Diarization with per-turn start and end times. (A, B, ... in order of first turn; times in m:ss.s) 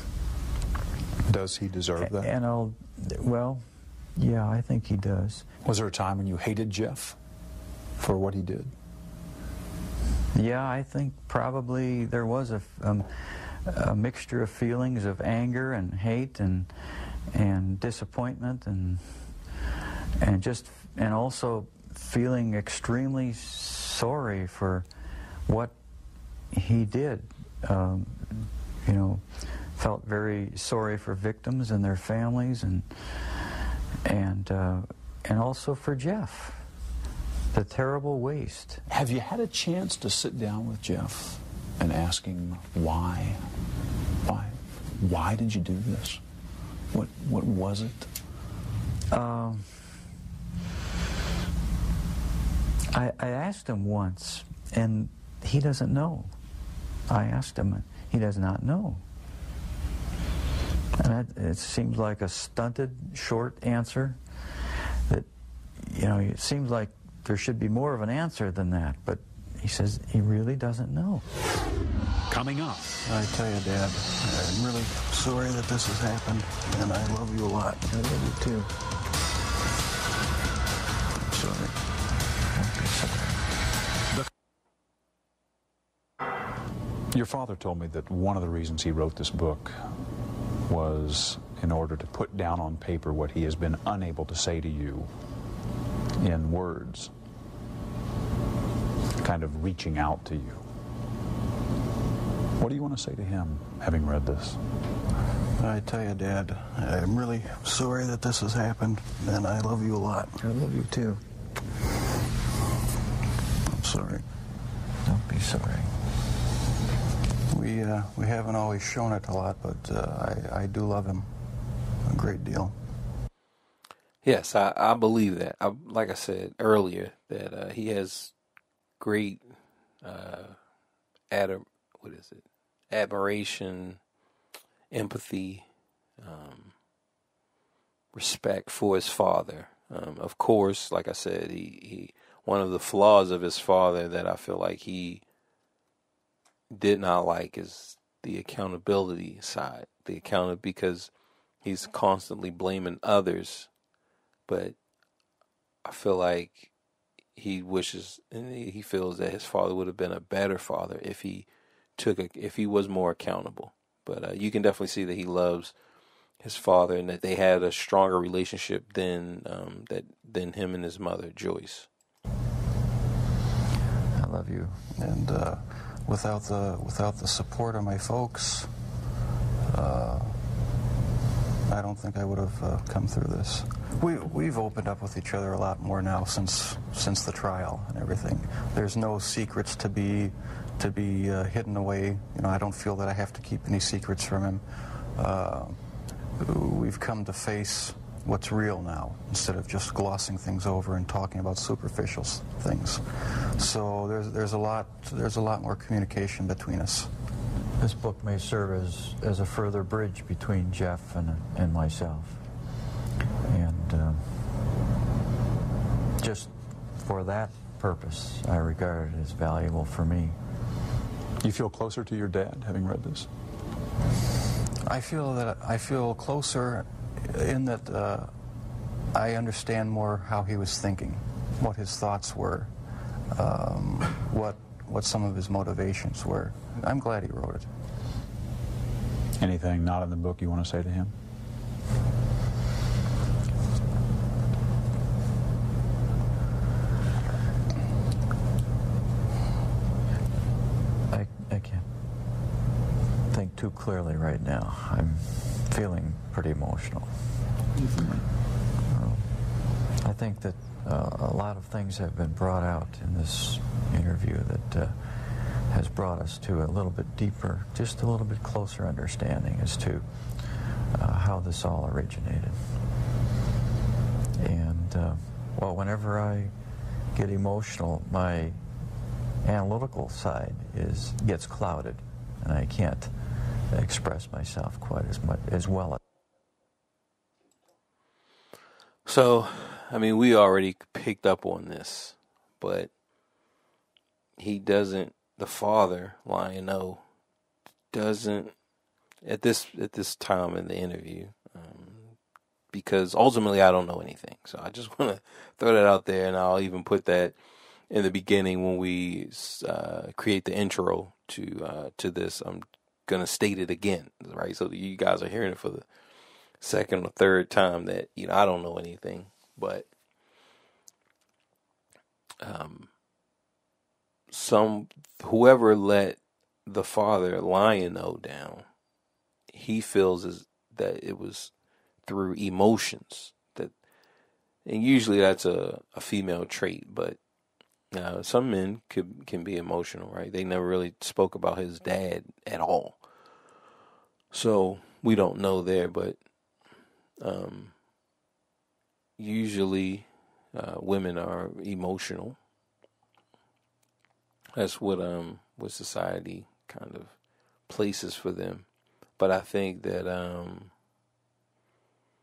0:01.2-0:02.3 A
0:02.0-0:05.5 B
0:05.6-0:07.2 A
0:08.0-0:08.7 A
0:10.3-0:16.7 B
0:17.3-0:19.3 B
0:20.2-0:24.9 B
0:25.5-0:25.7 B
0:26.5-0:29.2 B
0:29.8-0:33.5 B
0:34.0-0:36.6 B
0:37.5-0:38.8 B
0:38.9-0:43.4 A
0:44.2-0:46.2 A
0:46.9-0:48.1 A
0:49.1-0:49.7 B
0:52.9-0:56.3 B
0:57.1-0:59.0 B
1:01.0-1:04.2 B
1:05.8-1:11.2 B
1:12.3-1:13.0 A
1:13.0-1:17.9 C
1:17.9-1:18.7 B
1:21.2-1:21.8 C
1:22.5-1:23.4 B
1:27.1-1:29.9 A
1:30.7-1:35.1 A
1:36.2-1:37.1 A
1:39.2-1:40.6 A
1:42.6-1:44.6 A
1:45.6-1:50.4 C
1:50.4-1:51.2 B
1:53.7-1:54.2 C
1:55.0-1:55.9 B
1:57.5-2:01.3 C
2:02.0-2:02.8 C
2:04.2-2:08.3 D
2:09.0-2:09.5 D
2:10.0-2:10.6 D
2:11.3-2:14.0 D
2:14.9-2:15.6 D
2:16.2-2:16.7 D
2:18.1-2:25.2 D
2:26.8-2:31.1 D
2:31.6-2:33.7 D
2:34.5-2:34.8 D
2:35.8-2:36.7 D
2:37.4-2:41.5 D
2:42.0-2:45.7 D
2:46.4-2:51.9 D
2:54.2-2:54.8 B
2:55.0-2:58.7 C
2:59.7-3:00.4 C
3:01.7-3:15.8 C
3:04.0-3:04.3 A
3:16.4-3:27.1 C
3:27.8-3:32.4 B
3:33.4-3:34.4 B
3:36.2-3:40.4 B
3:41.4-3:43.3 A
3:44.9-3:48.3 C
3:49.1-3:52.7 C
3:53.3-3:57.7 C
3:59.4-4:01.2 A
4:11.1-4:11.8 B
4:13.3-4:17.1 B
4:17.8-4:18.2 A
4:18.9-4:19.4 B
4:20.0-4:30.1 B
4:30.9-4:32.6 B
4:34.4-4:36.5 B
4:37.1-4:38.6 B
4:39.4-4:43.1 B
4:43.7-4:46.0 B
4:49.1-4:52.9 D
4:54.4-4:57.0 D
4:57.9-4:58.5 D
4:59.2-5:02.2 D
5:02.7-5:07.4 D
5:07.9-5:15.8 D
5:16.6-5:19.9 D
5:22.4-5:22.9 D
5:24.3-5:28.7 D
5:29.5-5:31.5 D
5:32.0-5:33.7 D
5:34.6-5:37.2 D
5:37.9-5:43.0 D
5:44.3-5:46.2 D
5:47.2-5:47.7 D
5:49.2-5:52.4 D
5:54.6-5:57.1 D
5:57.7-5:58.6 D
5:59.2-6:00.7 D